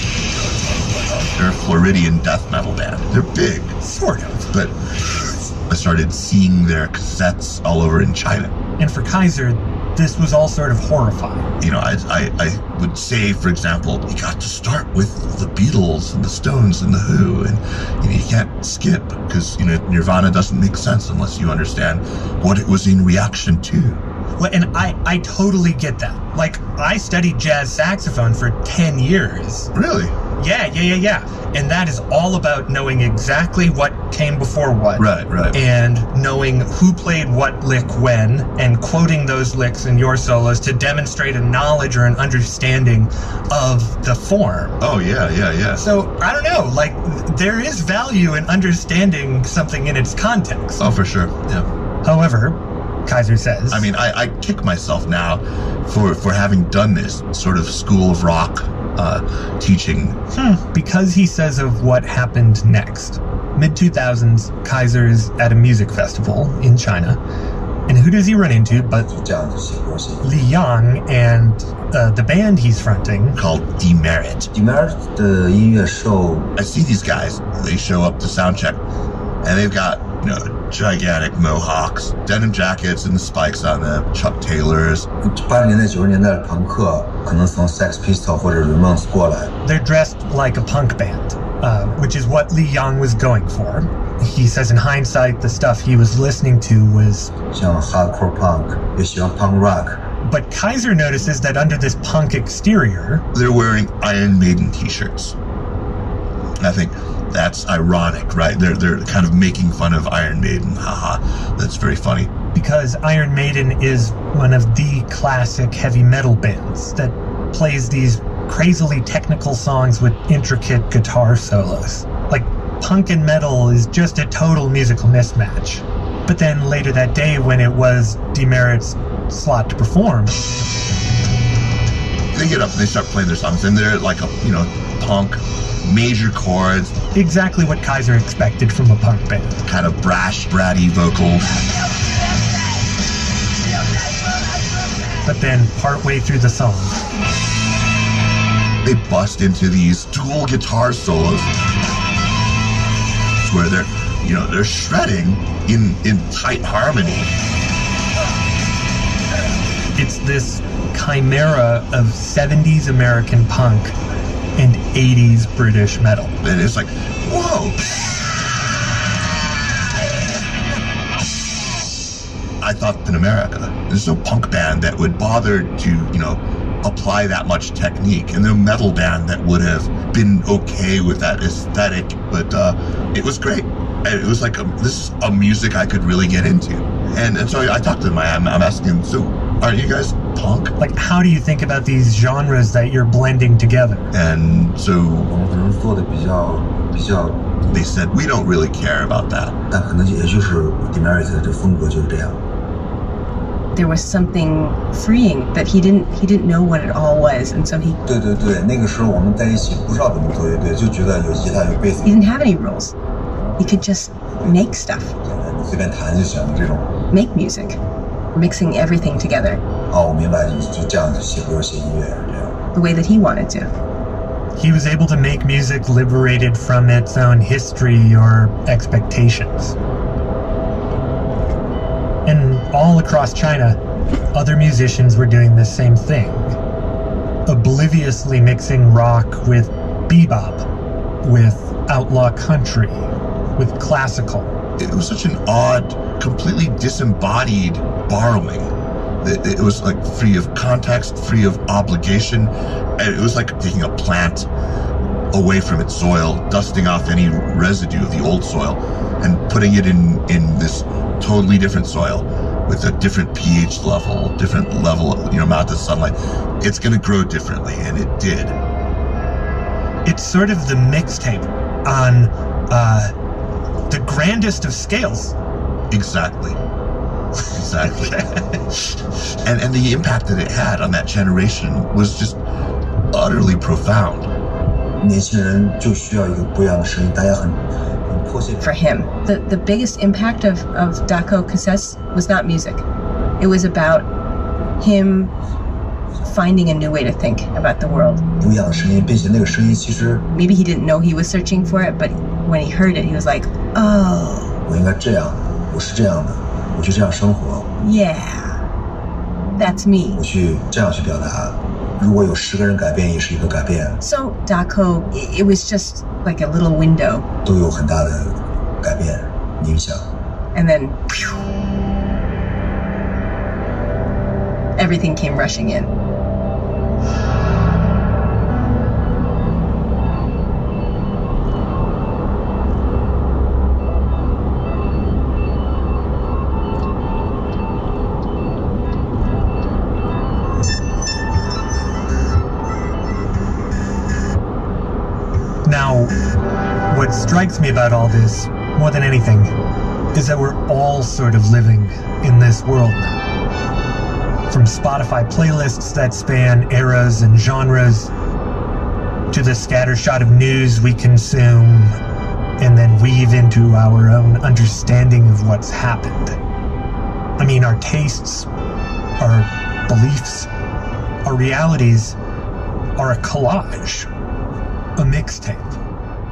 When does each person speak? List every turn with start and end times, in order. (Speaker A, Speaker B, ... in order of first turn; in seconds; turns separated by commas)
Speaker A: 1.3-3.8, Speaker B: 3.8-4.5, Speaker A: 5.7-8.5, Speaker B: 8.8-11.5, Speaker A: 11.6-24.0, Speaker B: 24.4-29.7, Speaker A: 29.7-30.1, Speaker B: 30.4-44.8, Speaker A: 35.0-35.6, Speaker A: 44.8-45.8, Speaker B: 45.8-50.8, Speaker A: 50.8-51.6, Speaker B: 52.0-53.9, Speaker A: 53.7-60.2, Speaker B: 60.4-67.2, Speaker B: 67.9-69.1, Speaker C: 68.5-70.3, Speaker B: 70.2-73.4, Speaker A: 73.3-74.5, Speaker C: 74.5-76.5, Speaker A: 76.6-78.8, Speaker A: 79.4-85.1, Speaker C: 85.2-89.5, Speaker B: 89.6-97.3, Speaker C: 97.5-100.0, Speaker B: 100.2-103.2, Speaker A: 103.3-105.3, Speaker A: 106.6-112.3, Speaker B: 112.5-130.4, Speaker A: 132.3-137.0, Speaker B: 137.1-139.6, Speaker A: 139.7-141.6, Speaker B: 145.2-147.0, Speaker A: 148.8-151.5, Speaker A: 153.4-157.3, Speaker B: 160.0-163.9, Speaker B: 164.6-166.4, Speaker A: 166.4-167.8, Speaker A: 172.6-190.7, Speaker B: 190.8-194.1, Speaker A: 194.1-195.3, Speaker C: 195.3-197.5, Speaker A: 197.7-199.6, Speaker C: 199.7-202.4, Speaker D: 203.8-208.0, Speaker C: 208.1-212.1, Speaker D: 212.0-212.9, Speaker D: 213.6-215.2, Speaker C: 215.2-216.9, Speaker D: 217.1-217.8, Speaker D: 218.3-219.6, Speaker C: 219.8-222.6, Speaker D: 222.7-223.7, Speaker B: 224.6-229.8, Speaker B: 232.3-233.8, Speaker B: 234.3-236.5, Speaker B: 237.5-240.7, Speaker B: 241.2-244.5, Speaker A: 244.8-254.5, Speaker A: 255.3-268.6, Speaker B: 270.1-273.1, Speaker B: 273.9-275.4, Speaker A: 275.9-276.6, Speaker A: 277.5-278.3, Speaker A: 279.4-282.4, Speaker A: 283.1-284.3, Speaker C: 285.0-288.7, Speaker D: 288.6-292.8, Speaker D: 293.4-294.1, Speaker D: 294.8-295.3, Speaker D: 296.2-298.3, Speaker C: 298.4-300.2, Speaker D: 300.3-304.6, Speaker C: 304.6-307.7, Speaker D: 307.8-308.6, Speaker D: 309.6-310.2, Speaker C: 310.1-314.0, Speaker D: 314.0-317.3, Speaker C: 317.4-320.1, Speaker D: 320.6-321.2, Speaker D: 324.8-325.9, Speaker B: 345.6-346.1, Speaker B: 346.9-349.5, Speaker B: 350.1-353.2, Speaker B: 354.5-358.1, Speaker B: 359.3-362.0, Speaker B: 362.6-366.4, Speaker B: 367.4-368.5, Speaker B: 369.2-370.5, Speaker B: 371.2-372.2, Speaker B: 373.0-374.1, Speaker B: 375.0-375.8